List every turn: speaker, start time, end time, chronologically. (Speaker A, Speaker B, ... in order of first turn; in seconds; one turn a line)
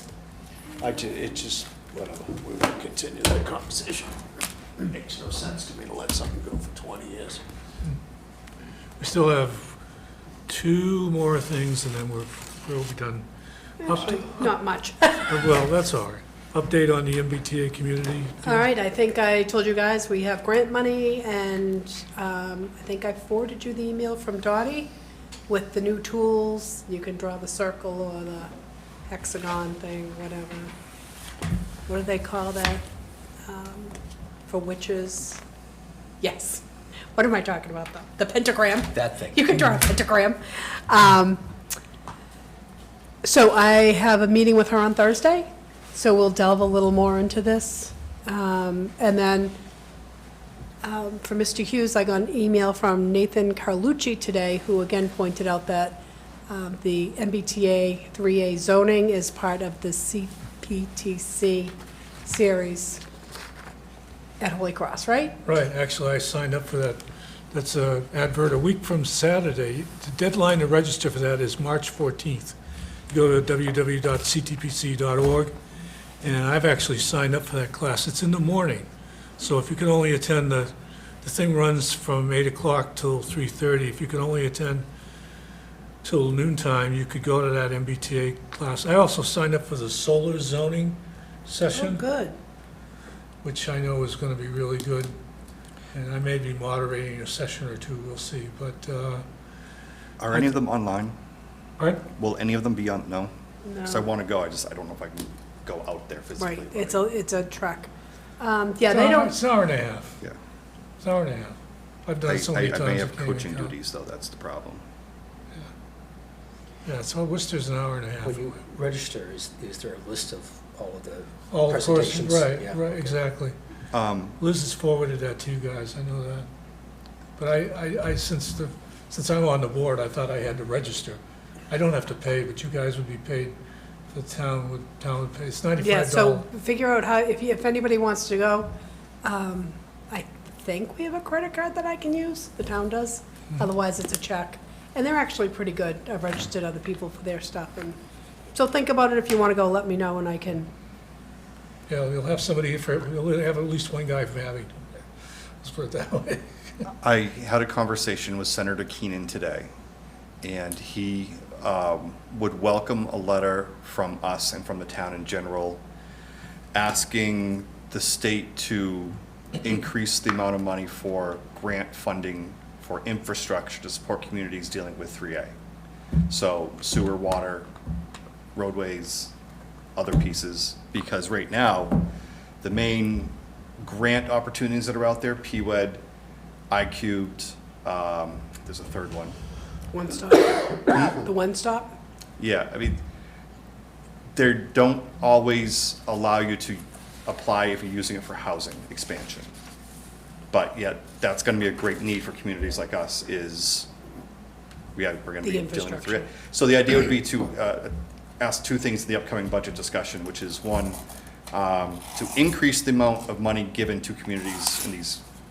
Speaker A: 0.8-4.1
Speaker A: 4.8-7.4
Speaker B: 9.0-9.8
Speaker B: 10.5-13.3
Speaker C: 13.8-15.4
Speaker B: 13.8-14.4
Speaker B: 15.3-18.6
Speaker C: 18.4-24.9
Speaker C: 25.5-28.5
Speaker C: 29.1-30.7
Speaker C: 31.9-32.9
Speaker C: 33.5-35.4
Speaker C: 36.2-41.5
Speaker D: 38.9-39.4
Speaker C: 43.2-49.6
Speaker C: 50.8-63.0
Speaker C: 64.4-65.4
Speaker B: 65.5-72.5
Speaker B: 73.1-75.5
Speaker B: 76.2-78.9
Speaker B: 79.4-84.9
Speaker B: 86.0-92.0
Speaker C: 91.7-92.4
Speaker B: 93.4-95.2
Speaker B: 95.9-99.2
Speaker E: 100.2-101.2
Speaker B: 100.3-100.6
Speaker B: 101.8-102.0
Speaker E: 102.1-103.3
Speaker C: 103.6-104.1
Speaker E: 103.8-107.0
Speaker C: 106.4-109.4
Speaker B: 108.9-110.2
Speaker B: 111.0-113.7
Speaker E: 112.3-114.8
Speaker B: 116.9-118.6
Speaker D: 118.2-123.1
Speaker B: 121.5-123.5
Speaker E: 123.9-124.4
Speaker B: 124.4-126.5
Speaker B: 127.4-131.2
Speaker B: 131.7-133.6
Speaker B: 134.1-136.4
Speaker C: 135.8-148.0
Speaker C: 148.5-150.7
Speaker B: 151.9-154.8
Speaker B: 155.6-156.5
Speaker E: 156.9-159.7
Speaker E: 160.4-165.8
Speaker E: 166.7-175.5
Speaker E: 176.3-177.7
Speaker E: 178.6-179.3
Speaker E: 180.0-182.1
Speaker E: 182.6-186.0
Speaker E: 186.7-189.4
Speaker C: 189.9-192.0
Speaker E: 192.4-193.0
Speaker E: 194.4-199.5
Speaker E: 200.5-203.9
Speaker E: 205.0-211.0
Speaker C: 205.4-206.3
Speaker E: 211.5-215.2